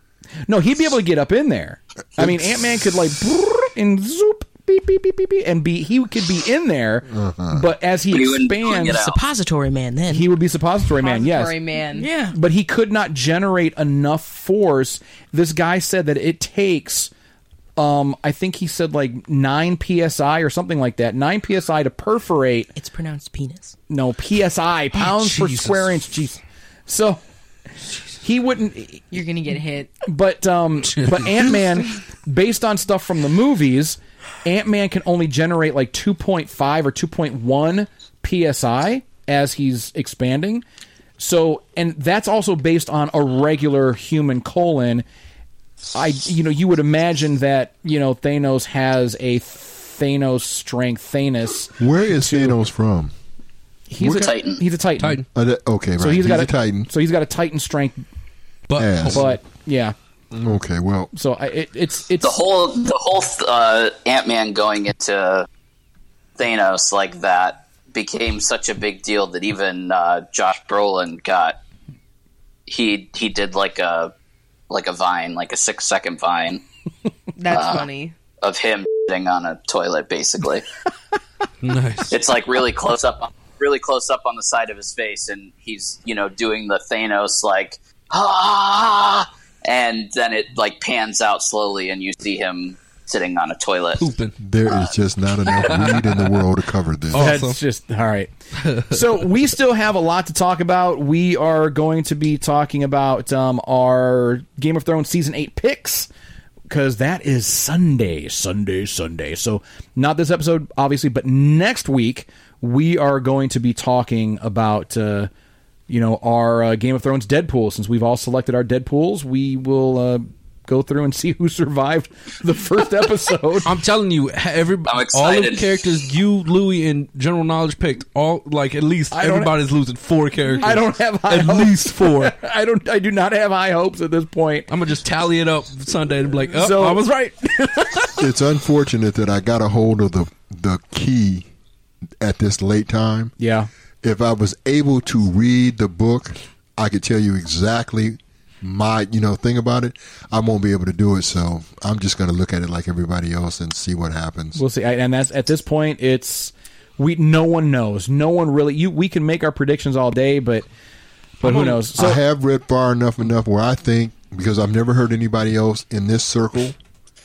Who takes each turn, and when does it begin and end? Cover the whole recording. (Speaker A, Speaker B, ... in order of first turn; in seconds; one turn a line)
Speaker A: 0.5-9.0
Speaker B: 7.1-7.7
Speaker C: 8.1-9.2
Speaker D: 8.8-10.3
Speaker A: 10.1-11.6
Speaker E: 11.0-12.1
Speaker D: 11.9-12.4
Speaker A: 12.3-17.1
Speaker A: 17.8-22.7
Speaker D: 22.8-23.8
Speaker A: 23.9-27.2
Speaker F: 24.9-25.9
Speaker A: 28.2-29.1
Speaker E: 29.1-29.9
Speaker A: 30.0-40.6
Speaker A: 41.2-45.0
Speaker A: 45.9-52.6
Speaker B: 51.8-53.1
Speaker A: 53.9-55.2
Speaker B: 54.0-54.3
Speaker C: 54.1-54.6
Speaker F: 55.0-55.3
Speaker B: 55.3-56.9
Speaker A: 56.0-58.0
Speaker F: 58.7-59.3
Speaker B: 58.8-59.3
Speaker A: 59.1-60.0
Speaker B: 60.3-61.1
Speaker A: 61.1-62.4
Speaker C: 62.2-65.5
Speaker C: 66.4-71.6
Speaker C: 72.7-74.1
Speaker C: 74.7-76.6
Speaker E: 77.4-78.2
Speaker C: 77.5-77.9
Speaker C: 78.4-80.7
Speaker F: 81.6-82.2
Speaker C: 82.1-94.1
Speaker F: 94.0-94.4
Speaker B: 94.4-97.4
Speaker F: 95.5-96.4
Speaker F: 97.1-97.6
Speaker A: 97.2-106.1
Speaker F: 98.6-99.2
Speaker A: 106.7-115.3
Speaker A: 115.9-123.7
Speaker F: 123.7-132.3
Speaker C: 124.9-125.8
Speaker A: 129.1-129.5
Speaker A: 130.6-134.7
Speaker F: 134.7-138.2
Speaker A: 136.6-137.0
Speaker B: 138.2-141.5
Speaker B: 142.2-143.3
Speaker A: 143.4-143.7
Speaker B: 144.0-154.6
Speaker A: 154.6-160.7
Speaker A: 161.4-162.2
Speaker F: 161.4-161.8
Speaker B: 161.8-166.8